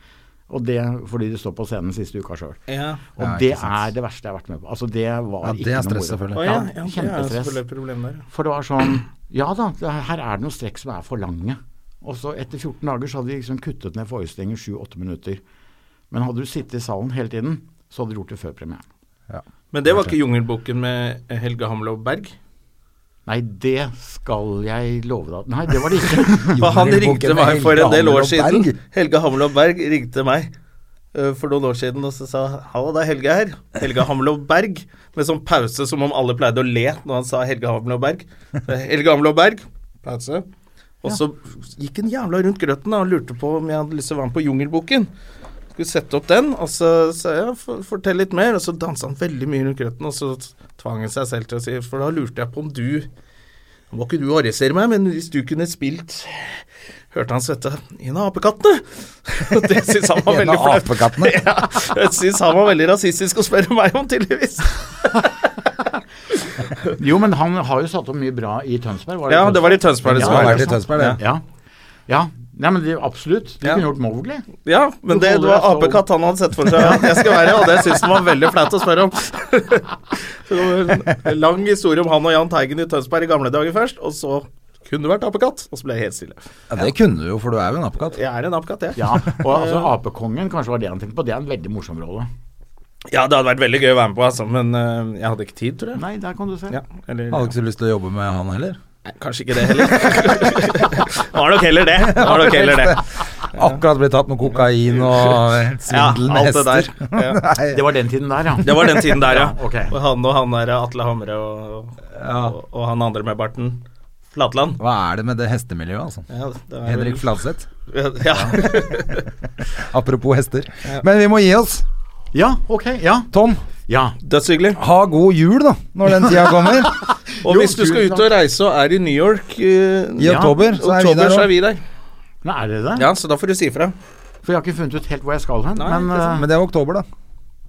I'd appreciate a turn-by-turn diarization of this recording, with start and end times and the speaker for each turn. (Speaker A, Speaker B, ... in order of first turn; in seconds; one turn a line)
Speaker A: 0.5-2.6
Speaker B: 2.7-3.0
Speaker A: 3.1-7.6
Speaker C: 3.2-3.9
Speaker C: 5.4-6.6
Speaker B: 6.3-8.3
Speaker A: 8.3-15.4
Speaker A: 16.1-18.8
Speaker C: 19.3-20.1
Speaker B: 19.7-22.4
Speaker A: 23.3-26.6
Speaker C: 26.6-28.8
Speaker B: 26.6-30.5
Speaker B: 31.1-40.5
Speaker B: 41.0-45.1
Speaker B: 45.8-53.1
Speaker B: 53.9-65.5
Speaker C: 60.2-61.5
Speaker A: 66.9-71.4
Speaker B: 69.3-71.2
Speaker C: 70.0-71.2
Speaker A: 72.1-74.5
Speaker B: 74.7-86.4
Speaker A: 75.1-76.0
Speaker C: 86.7-88.2
Speaker B: 88.1-89.9
Speaker A: 89.0-92.3
Speaker B: 93.1-96.0
Speaker A: 96.0-96.8
Speaker B: 96.7-97.5
Speaker C: 97.3-98.8
Speaker B: 99.1-103.8
Speaker C: 100.1-100.5
Speaker C: 102.0-107.9
Speaker B: 104.9-107.4
Speaker A: 107.7-110.0
Speaker B: 108.6-114.8
Speaker C: 112.2-112.6
Speaker C: 114.8-116.3
Speaker B: 116.3-117.3
Speaker C: 116.8-117.7
Speaker B: 117.9-119.3
Speaker C: 118.5-119.2
Speaker C: 119.7-121.8
Speaker A: 122.3-123.3
Speaker C: 123.3-123.6
Speaker A: 123.9-124.2
Speaker B: 124.2-124.8
Speaker C: 124.8-127.0
Speaker A: 126.5-128.3
Speaker B: 127.4-131.8
Speaker C: 130.2-131.5
Speaker A: 130.2-130.6
Speaker A: 132.4-133.1
Speaker B: 133.0-133.9
Speaker A: 134.4-136.5
Speaker B: 135.8-136.4
Speaker C: 136.3-137.1